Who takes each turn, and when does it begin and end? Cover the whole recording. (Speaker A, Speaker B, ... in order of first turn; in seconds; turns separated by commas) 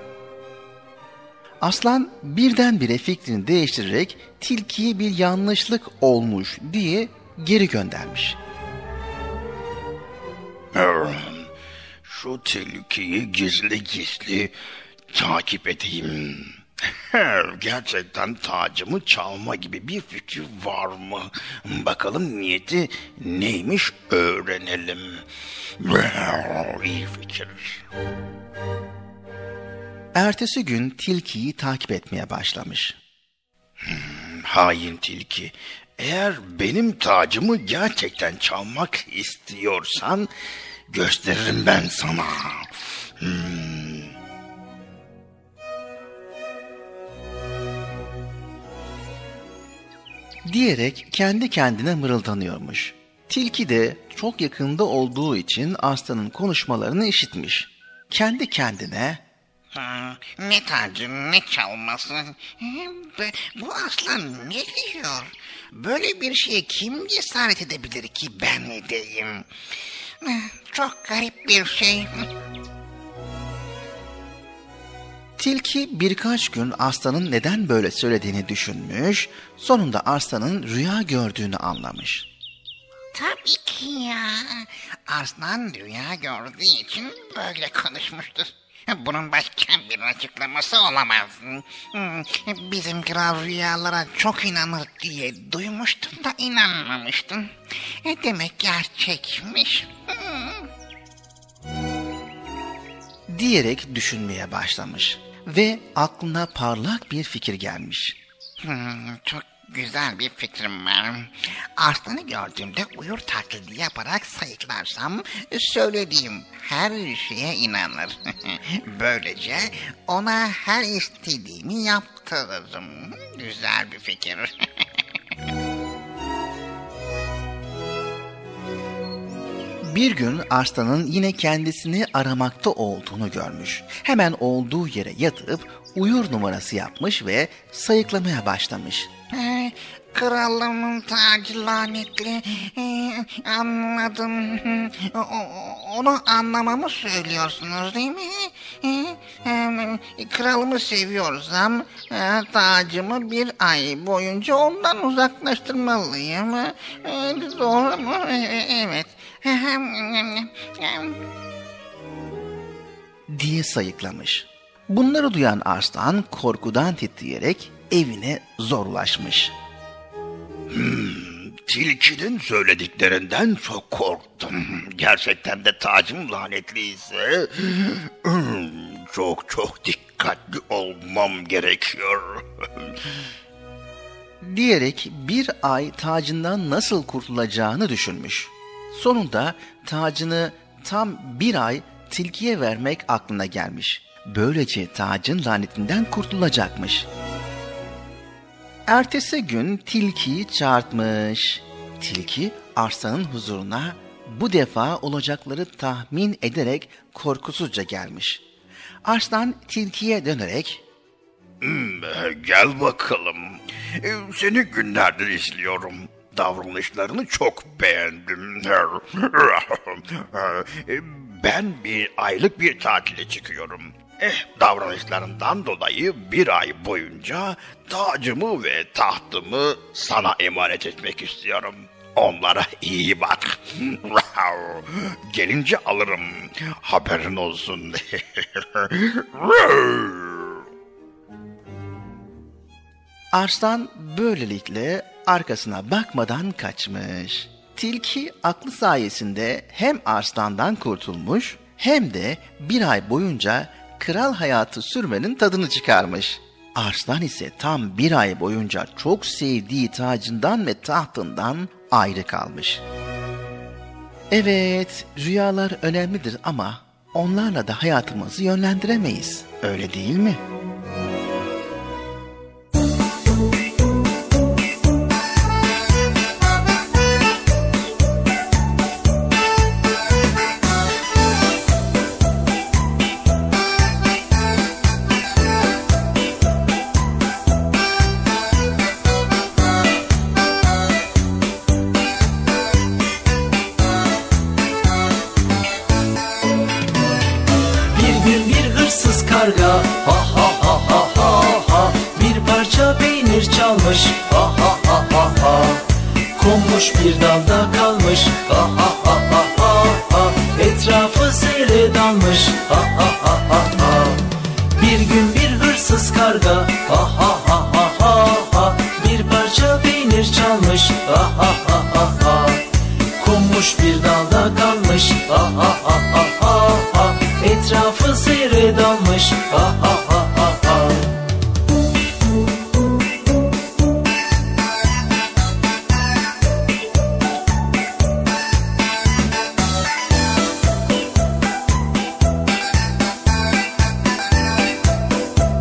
Speaker A: 1.6-8.4, Speaker B: 10.7-11.5, Speaker B: 12.0-14.5, Speaker B: 15.1-16.6, Speaker B: 17.1-25.2, Speaker B: 25.8-27.8, Speaker A: 30.1-33.0, Speaker B: 33.9-40.3, Speaker B: 40.9-42.7, Speaker B: 43.2-44.1, Speaker A: 50.5-59.2, Speaker C: 59.7-69.5, Speaker C: 70.2-72.2, Speaker A: 75.4-82.3, Speaker C: 83.1-97.5, Speaker C: 98.0-100.6, Speaker A: 103.3-108.2, Speaker C: 108.6-124.5, Speaker A: 129.8-139.1, Speaker C: 139.3-161.2, Speaker A: 163.3-169.5, Speaker B: 170.7-182.4, Speaker A: 184.4-197.1, Speaker A: 198.9-208.4, Speaker A: 209.0-210.8, Speaker B: 211.6-240.6, Speaker A: 243.3-262.8, Speaker A: 264.3-270.4, Speaker D: 297.9-314.2, Speaker D: 314.7-322.6, Speaker D: 323.2-331.0